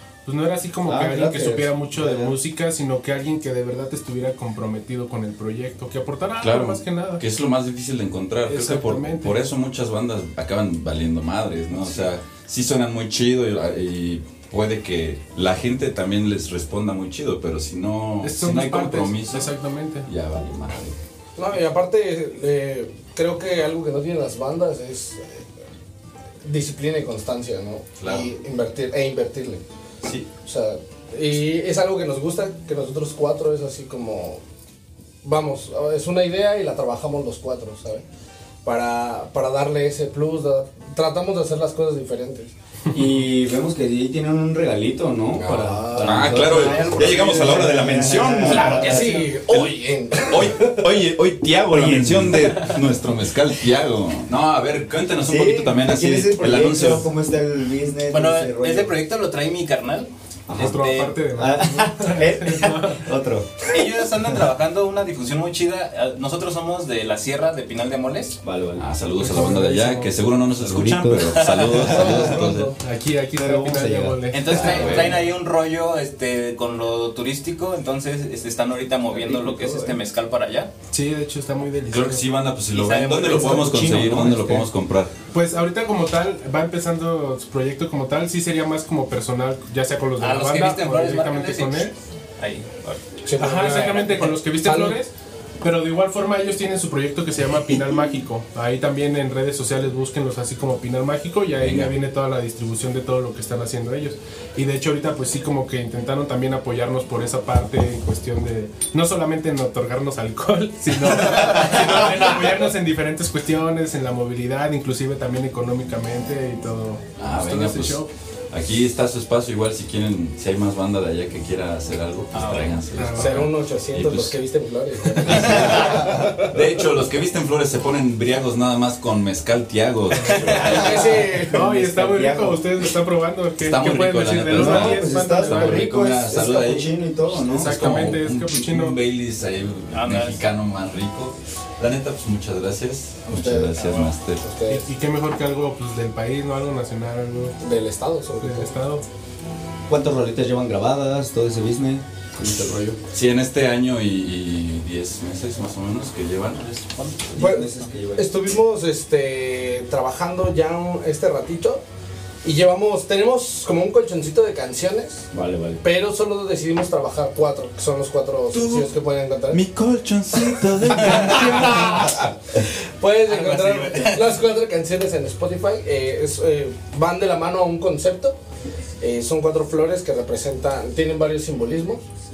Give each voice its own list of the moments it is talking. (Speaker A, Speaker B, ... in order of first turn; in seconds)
Speaker A: 0.2-7.2, 8.5-9.5, 18.2-20.1, 60.5-63.1, 69.2-70.2, 72.8-75.2, 80.9-82.3, 83.5-84.1, 85.3-91.9, 93.4-118.1, 123.0-123.4, 130.2-130.9, 131.5-135.9, 137.6-139.0, 144.7-147.6, 148.4-149.0
Speaker B: 0.8-2.4, 42.9-49.2, 51.6-52.6, 55.2-59.0, 60.5-60.8, 61.4-63.5, 68.4-68.8, 70.6-71.4, 73.3-75.2, 79.1-80.0, 83.3-84.7, 131.5-132.7, 134.5-138.1, 149.9-153.0, 157.2-158.3, 165.3-165.8
Speaker C: 6.4-19.5, 20.1-21.0, 28.0-28.3, 30.0-30.3, 46.0-48.9, 49.4-57.1, 68.8-72.7, 74.4-75.2, 81.9-85.1, 101.6-101.9, 117.2-124.4, 125.2-131.4, 133.6-144.5, 153.1-157.2, 168.5-168.9, 169.5-172.2
Speaker D: 21.4-25.5, 26.4-29.6, 30.4-34.4, 35.2-38.0, 38.6-42.5, 45.3-51.0, 71.8-72.8, 93.2-94.1, 94.6-95.0, 123.2-126.5, 130.5-131.7, 143.3-144.9, 147.6-148.7, 157.4-161.8, 162.4-165.3, 165.8-169.6, 170.9-178.4, 179.0-182.0
Speaker E: 48.5-49.3, 58.1-61.2, 63.7-68.3, 71.3-71.8, 74.3-80.7, 82.7-84.2, 90.2-93.0, 93.8-94.4, 122.3-122.9, 125.4-126.1, 130.3-130.8, 139.9-140.5, 143.8-144.1, 171.0-171.7, 173.3-174.3